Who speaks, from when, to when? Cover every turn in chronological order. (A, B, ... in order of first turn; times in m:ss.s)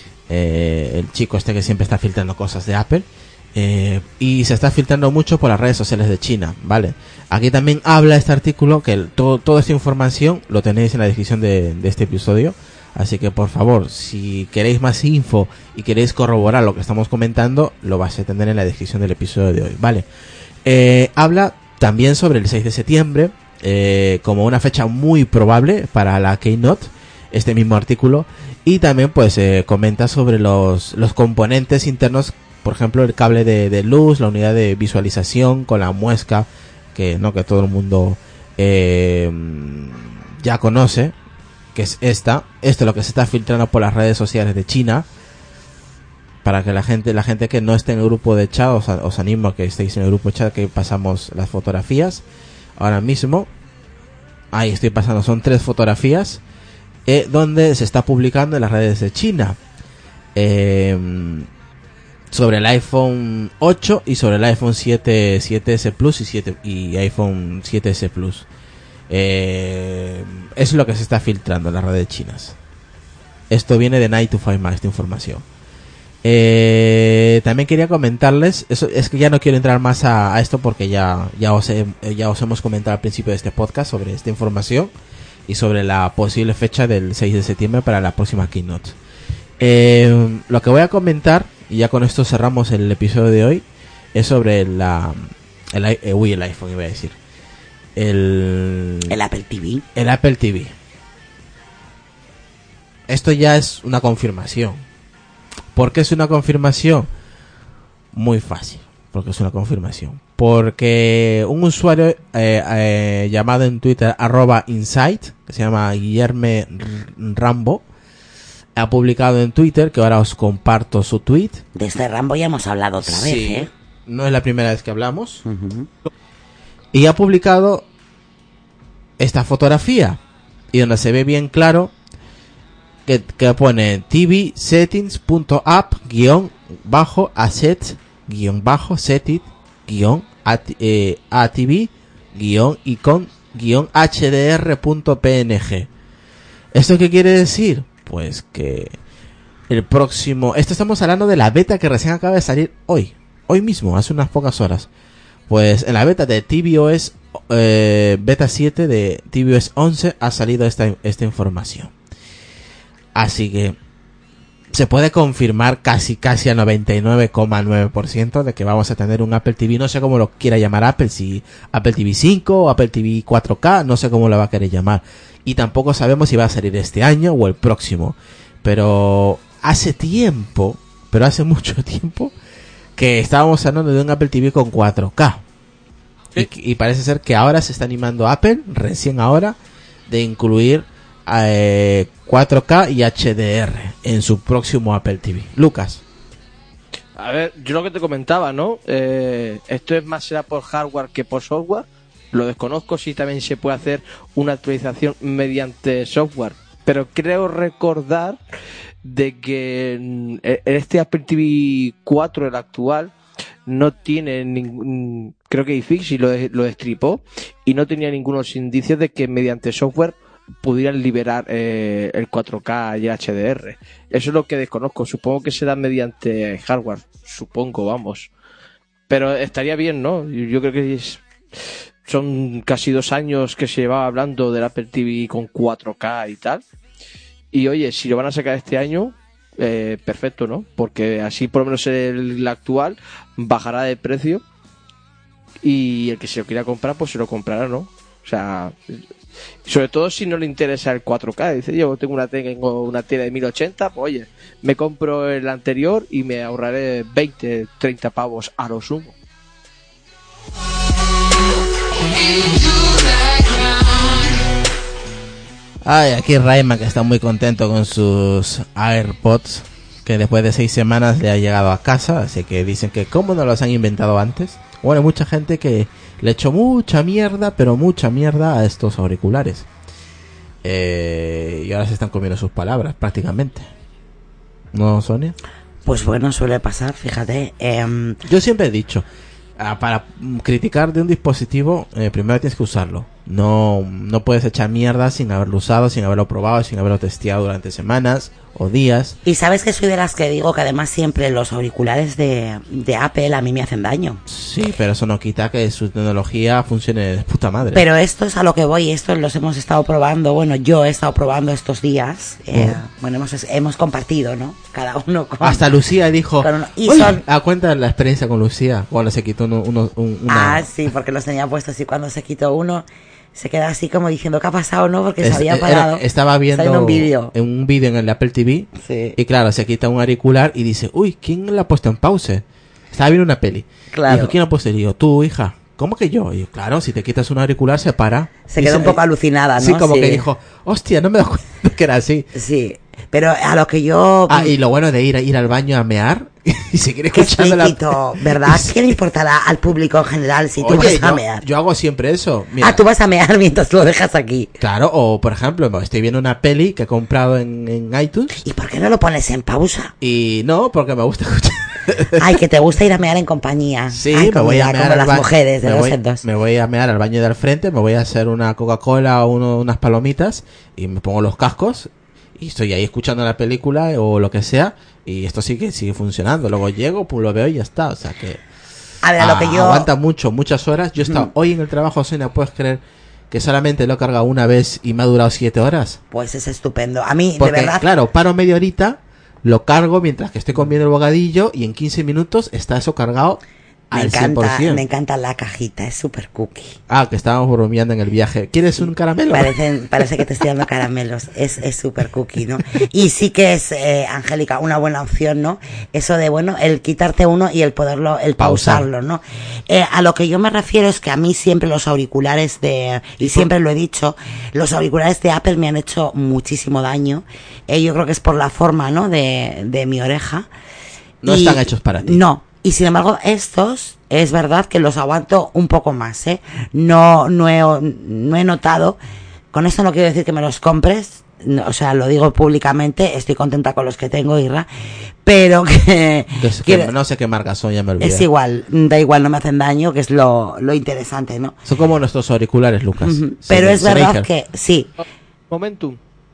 0:00.3-0:20.0 A
0:20.6-0:41.1 A
0:41.7-0:45.0 A
0:46.4-0:52.2 A
0:52.8-0:53.5 A
0:54.5-0:56.4 A
0:57.0-0:59.6 A
1:00.3-1:01.5 A
1:02.3-1:08.5 A
1:09.1-1:12.6 A
1:13.5-1:15.4 A
1:16.2-1:24.9 A
1:25.5-1:29.0 A
1:29.6-1:37.2 A
1:38.0-1:39.2 A
1:39.1-1:39.8 B
1:40.0-1:40.7 A
1:43.1-1:44.8 A
1:45.7-1:47.1 A
1:48.1-1:57.8 A
1:58.8-2:01.6 A
2:01.7-2:03.7 B
2:03.0-2:05.4 A
2:05.4-2:05.9 B
2:06.9-2:07.8 A
2:09.2-2:10.2 A
2:10.7-2:11.9 A
2:13.0-2:25.9 A
2:26.7-2:29.0 A
2:29.7-2:34.9 A
2:35.5-2:41.9 A
2:43.1-2:43.8 A
2:44.7-3:02.3 A
3:03.0-3:05.4 A
3:06.3-3:09.6 A
3:10.1-3:16.0 A
3:17.2-3:28.4 C
3:29.0-3:33.1 C
3:33.6-3:48.3 C
3:49.1-3:51.2 C
3:52.0-3:56.6 C
3:57.5-4:04.4 C
4:05.6-4:09.0 C
4:09.6-4:19.1 C
4:25.8-4:39.7 A
4:40.6-4:43.7 A
4:44.7-4:45.4 A
4:45.8-4:48.2 B
4:48.2-4:49.0 A
4:49.6-4:59.2 A
4:59.2-5:04.2 B
5:04.3-5:07.8 A
5:07.7-5:15.7 B
5:12.5-5:12.8 A
5:15.4-5:20.7 A
5:16.4-5:17.2 B
5:20.3-5:27.3 B
5:25.2-5:39.0 A
5:28.8-5:29.2 B
5:33.9-5:34.3 B
5:38.5-5:40.2 B
5:39.6-5:42.3 A
5:42.3-5:44.5 B
5:44.3-5:49.0 A
5:47.1-5:51.4 B
5:50.6-5:52.8 A
5:52.6-5:54.5 B
5:54.6-5:58.3 A
5:58.4-5:59.9 B
6:00.0-6:02.4 A
6:02.2-6:06.2 B
6:03.9-6:18.4 A
6:19.0-6:19.9 B
6:19.2-6:26.0 A
6:26.1-6:27.8 B
6:27.4-6:33.4 A
6:33.9-6:34.8 A
6:33.9-6:36.8 B
6:36.9-6:39.5 A
6:39.3-7:00.5 B
6:48.4-6:48.9 A
6:53.2-6:53.5 A
7:01.2-7:02.2 A
7:01.2-7:09.0 B
7:09.5-7:14.7 B
7:15.2-7:16.9 B
7:16.4-7:18.3 A
7:18.0-7:21.6 B
7:21.6-7:24.3 A
7:23.0-7:24.9 B
7:25.0-7:26.0 C